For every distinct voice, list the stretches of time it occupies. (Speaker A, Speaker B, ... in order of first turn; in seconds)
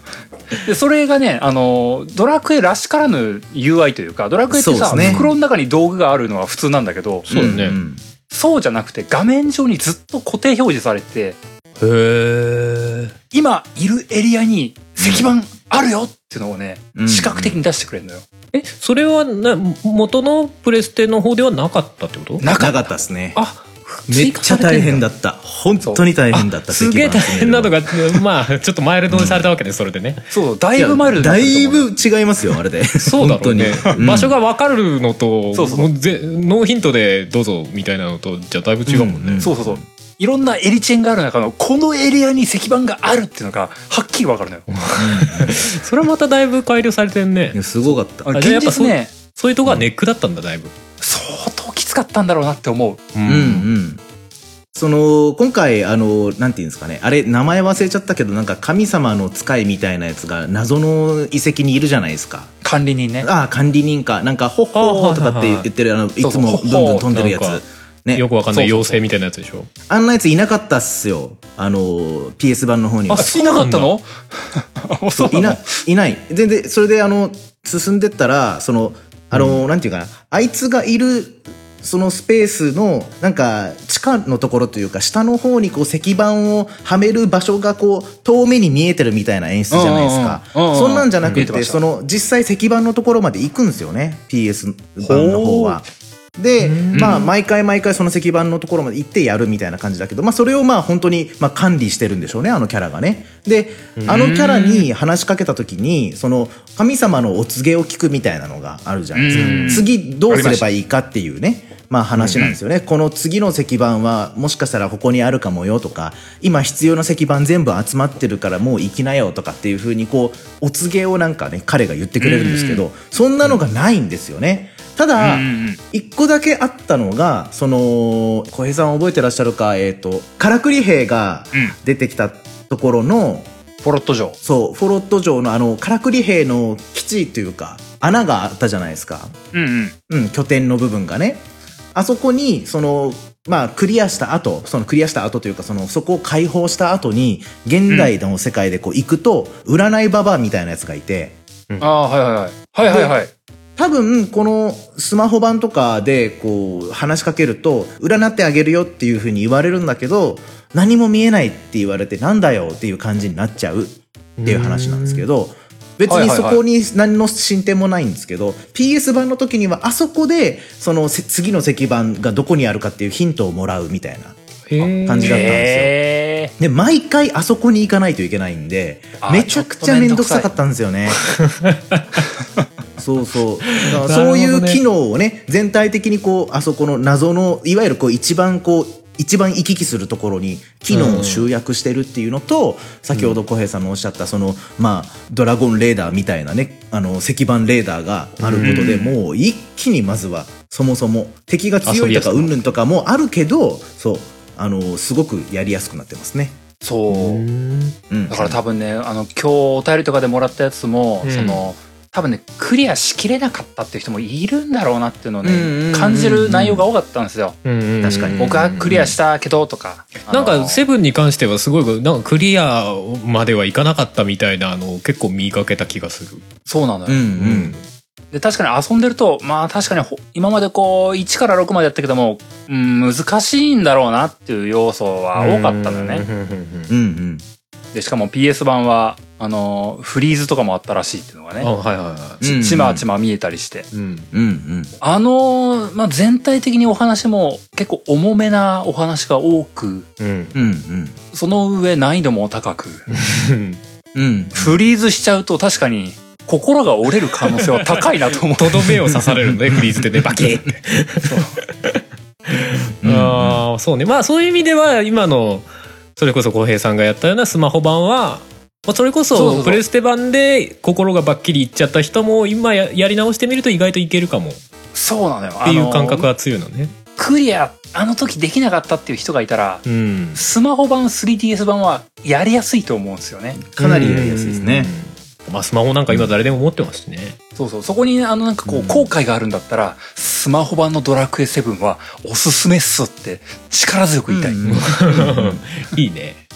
Speaker A: 0.6-7.3, 8.3-11.4, 13.3-18.3, 22.4-22.9, 24.1-25.0, 30.3-31.9, 35.5-35.9, 39.4-44.7, 48.2-49.1, 51.0-53.0, 62.6-63.3, 66.2-67.2, 68.5-69.0, 73.1-75.8, 89.7-91.8, 95.0-95.8, 96.9-97.3, 104.1-104.9, 109.1-110.7, 122.2-122.8, 125.2-125.8, 133.8-134.4, 139.5-139.9, 151.8-153.3, 166.1-166.6, 175.2-176.5, 179.2-180.5, 198.6-199.1, 206.8-207.4, 208.3-217.6, 218.4-220.8, 226.7-227.2, 228.3-236.2, 237.9-241.7, 242.4-243.9, 245.0-250.1, 251.3-253.1, 254.5-259.1, 261.2-261.6, 269.3-269.8, 274.9-276.3, 277.1-279.8, 280.4-283.6, 287.6-294.6
Speaker B: 4.5-5.3, 7.3-8.0, 16.9-17.6, 22.5-23.4, 24.1-28.2, 29.1-29.5, 30.8-34.4, 38.9-39.8, 45.0-45.6, 47.5-48.3, 53.2-54.0, 54.8-62.5, 63.2-68.2, 69.9-73.3, 75.2-133.5, 134.4-139.4, 140.1-151.4, 152.8-153.2, 153.8-175.9, 176.6-181.3, 183.0-206.6, 208.1-208.6, 215.4-216.8, 218.0-219.1, 227.1-227.8, 236.9-237.4, 242.4-243.1, 244.3-244.9, 250.5-251.2, 254.1-254.8, 263.0-263.6, 283.6-284.9, 288.7-289.1, 294.3-295.6
Speaker C: 4.9-5.3, 7.3-7.8, 11.8-13.1, 18.5-22.5, 23.4-24.1, 26.3-30.3, 33.0-39.5, 44.7-47.7, 48.3-50.7, 53.1-53.7, 64.7-65.7, 67.0-67.6, 68.1-69.7, 73.1-73.9, 79.3-79.6, 96.6-97.2, 104.0-104.2, 109.3-109.8, 112.2-112.5, 164.4-165.3, 174.7-175.5, 181.5-182.2, 183.7-184.8, 190.9-191.5, 198.4-198.9, 201.8-202.7, 207.1-208.0, 211.2-211.6, 217.6-219.1, 220.3-226.4, 227.4-227.8, 235.3-236.9, 241.6-242.4, 243.9-244.3, 250.2-250.6, 253.1-253.8, 258.6-274.6, 275.6-276.9, 279.9-280.4, 283.8-287.4, 294.6-296.4